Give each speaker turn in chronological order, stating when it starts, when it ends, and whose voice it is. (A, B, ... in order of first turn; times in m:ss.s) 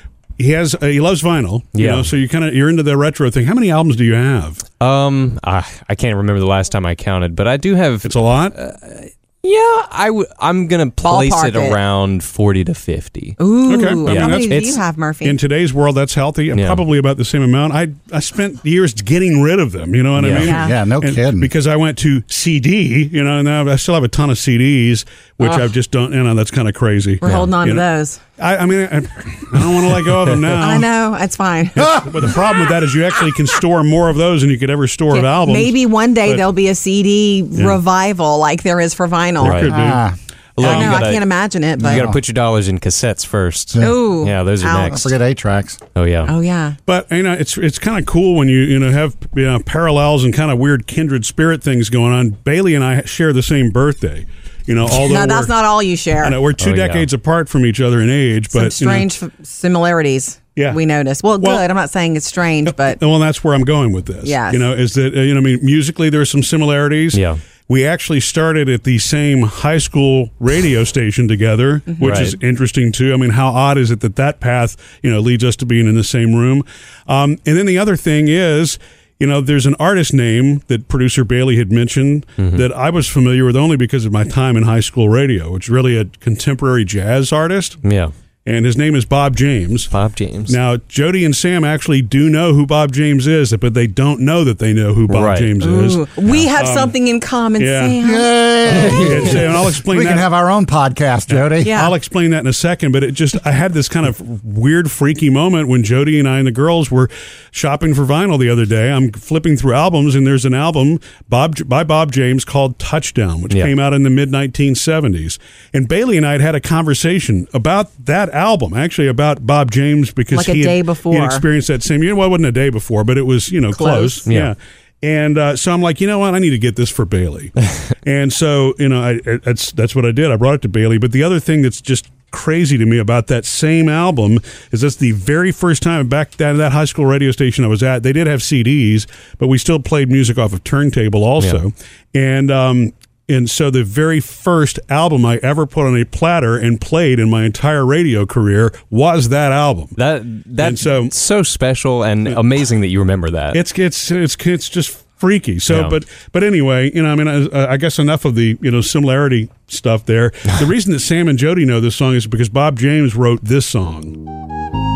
0:00.4-0:04.6 A
0:01.7-0:02.1 B
0:04.8-0:13.4 B
0:08.0-0:08.6 A
0:11.0-0:11.8 C
0:13.4-0:15.4 C
0:13.7-0:14.7 A
0:14.1-0:14.8 B
0:15.2-0:27.8 A
0:16.5-0:16.8 B
0:20.2-0:20.5 B
0:20.2-0:21.5 D
0:20.4-0:20.8 C
0:27.2-0:28.2 C
0:27.2-0:27.5 B
0:28.4-0:30.9 A
0:30.6-0:32.0 C
0:31.8-0:36.4 A
0:32.0-0:32.6 D
0:35.1-0:40.0 C
0:39.4-0:40.0 A
0:39.4-0:39.7 B
0:39.6-0:40.2 D
0:40.6-0:45.2 B
0:40.6-0:41.0 A
0:40.6-0:42.1 C
0:41.8-0:42.2 D
0:43.8-0:45.0 C
0:44.8-0:45.8 D
0:46.0-0:46.4 B
0:46.3-0:46.8 C
0:46.9-0:55.6 A
0:54.9-0:56.4 C
0:56.2-0:59.1 A
0:56.6-0:57.1 B
0:58.5-1:03.0 C
1:02.7-1:27.8 A
1:04.2-1:04.7 C
1:07.1-1:07.4 B
1:11.9-1:12.3 C
1:12.0-1:12.4 B
1:22.4-1:22.6 B
1:27.8-1:28.1 B
1:28.4-1:29.9 A
1:29.9-1:30.6 B
1:30.5-1:36.9 A
1:35.1-1:35.5 B
1:35.6-1:39.3 C
1:37.6-1:38.0 A
1:38.0-1:41.7 D
1:38.8-1:40.3 A
1:41.3-2:30.0 A
1:41.6-1:42.0 C
2:00.3-2:01.4 C
2:03.7-2:04.3 C
2:04.3-2:04.5 B
2:30.0-2:33.6 B
2:30.6-2:31.1 A
2:33.5-2:44.2 A
2:35.7-2:36.0 B